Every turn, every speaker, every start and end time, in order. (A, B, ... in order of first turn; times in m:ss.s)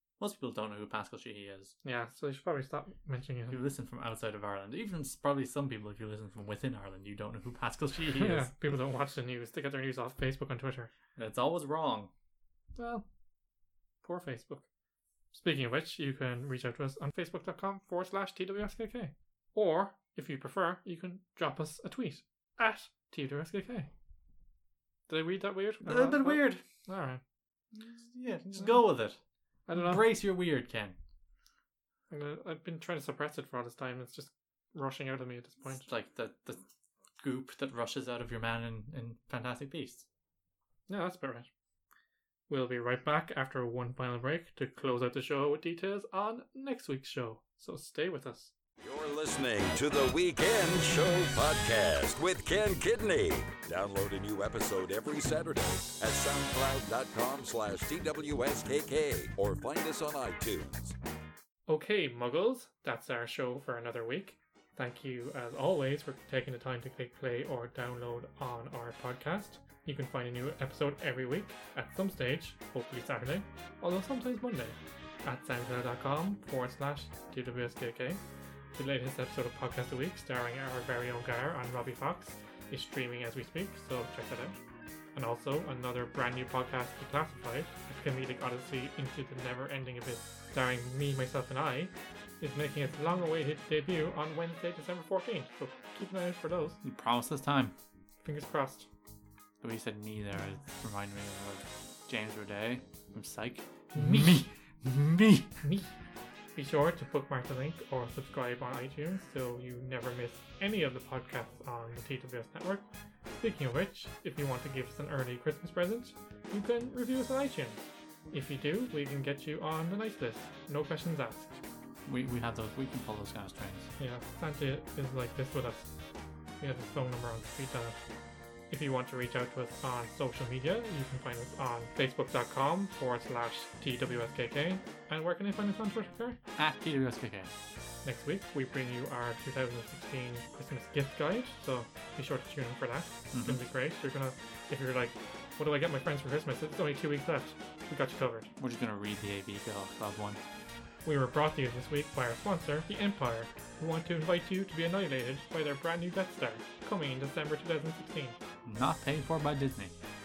0:00.2-0:01.7 A
0:01.8-0:03.6 B
0:03.5-0:08.5 A
0:08.2-0:10.9 B
0:11.2-0:12.1 A
0:12.8-0:13.1 B
0:14.0-0:14.6 B
0:15.3-0:23.9 B
0:25.1-0:27.2 B
0:25.8-0:26.6 A
0:27.7-0:29.2 A
0:29.7-0:30.0 B
0:29.7-0:31.0 A
0:32.1-0:35.9 B
0:35.7-0:36.6 A
0:37.2-0:40.1 A
0:40.9-0:41.5 B
0:42.5-0:48.5 B
0:48.8-1:01.0 C
1:01.7-1:18.2 B
1:18.8-1:24.6 B
1:25.2-1:36.8 B
1:36.8-1:37.8 A
1:38.2-1:38.9 B
1:39.6-1:45.5 A
1:43.9-1:44.4 B
1:45.6-1:45.9 B
1:46.6-1:52.9 B
1:53.4-2:01.6 B
2:02.1-2:03.9 A
2:04.0-2:05.9 B
2:06.6-2:08.0 B
2:08.7-2:16.4 B
2:16.6-2:17.5 A
2:18.0-2:28.5 B
2:23.3-2:23.6 A
2:28.6-2:30.4 A
2:31.0-2:38.4 B
2:38.6-2:40.0 A